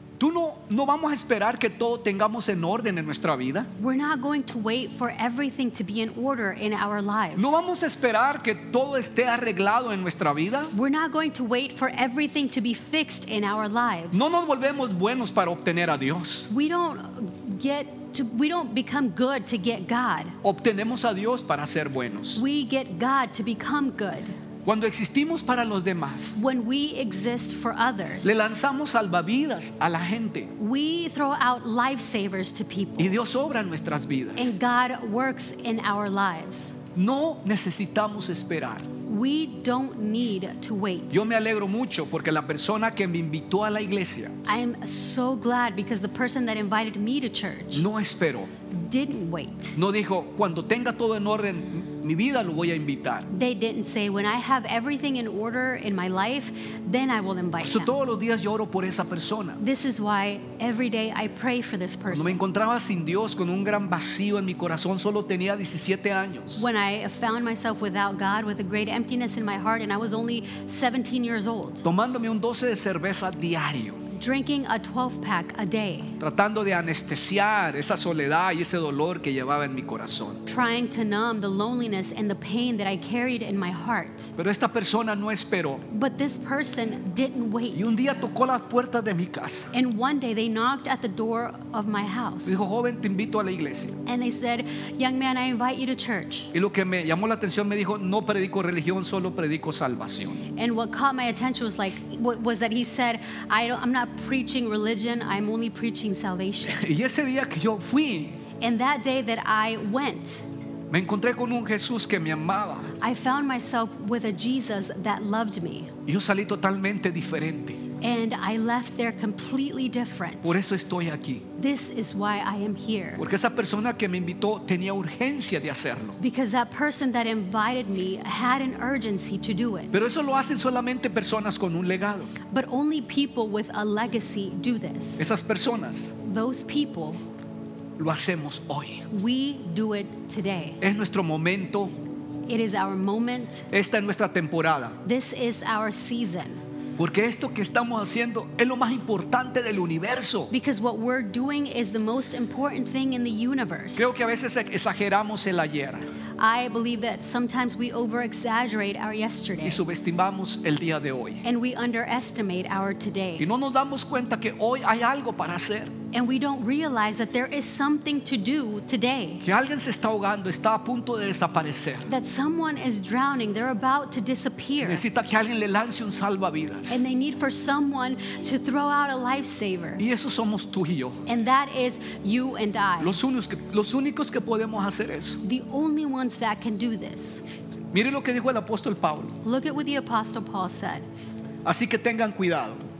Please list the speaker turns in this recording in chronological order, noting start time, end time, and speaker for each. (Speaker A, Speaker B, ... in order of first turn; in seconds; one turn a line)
Speaker A: 0.2-3.7
Speaker B: 3.8-7.6
Speaker A: 7.3-10.7
Speaker B: 10.7-14.3
Speaker A: 14.1-16.5
Speaker B: 16.5-20.4
Speaker A: 20.4-22.4
Speaker B: 22.3-24.4
Speaker A: 24.6-26.4
Speaker B: 26.4-28.4
Speaker A: 28.2-30.5
Speaker B: 30.6-33.2
Speaker A: 33.0-34.5
Speaker B: 34.4-36.8
Speaker A: 36.9-38.9
Speaker B: 39.1-41.2
Speaker A: 41.1-44.4
Speaker B: 44.5-47.8
Speaker A: 47.7-48.5
Speaker B: 48.7-49.8
Speaker A: 49.8-53.3
Speaker B: 53.3-57.9
Speaker A: 57.6-59.6
Speaker B: 59.6-62.4
Speaker A: 62.1-66.6
Speaker B: 66.6-71.8
Speaker A: 71.8-74.0
Speaker B: 74.1-76.1
Speaker A: 76.2-80.4
Speaker B: 80.5-84.3
Speaker A: 84.4-85.8
Speaker B: 85.9-87.9
Speaker A: 87.7-89.7
Speaker B: 89.7-92.6
Speaker A: 92.5-94.0
Speaker B: 94.0-96.5
Speaker A: 96.5-100.5
Speaker B: 100.5-106.8
Speaker A: 106.7-108.4
Speaker B: 108.6-110.4
Speaker A: 110.9-112.9
Speaker B: 113.0-115.9
Speaker A: 116.1-117.8
Speaker B: 118.0-120.6
Speaker A: 120.4-121.5
Speaker B: 121.6-123.2
Speaker A: 123.2-126.2
Speaker B: 126.2-130.1
Speaker A: 129.9-132.3
Speaker B: 132.5-135.2
Speaker A: 135.2-136.1
Speaker B: 136.2-137.2
Speaker A: 138.0-139.0
Speaker B: 139.1-140.8
Speaker A: 140.8-141.9
Speaker B: 142.5-143.7
Speaker A: 143.7-145.0
Speaker B: 145.0-146.6
Speaker A: 147.0-150.5
Speaker B: 150.5-154.1
Speaker A: 154.0-156.0
Speaker B: 156.4-159.8
Speaker A: 159.6-161.4
Speaker B: 161.4-163.4
Speaker A: 163.4-165.9
Speaker B: 166.1-169.4
Speaker A: 169.4-172.1
Speaker B: 172.1-175.0
Speaker A: 174.8-177.0
Speaker B: 176.9-180.0
Speaker A: 180.0-181.2
Speaker B: 181.3-183.2
Speaker A: 183.0-185.4
Speaker B: 185.4-187.4
Speaker A: 187.9-189.4
Speaker B: 189.4-191.0
Speaker A: 191.6-192.8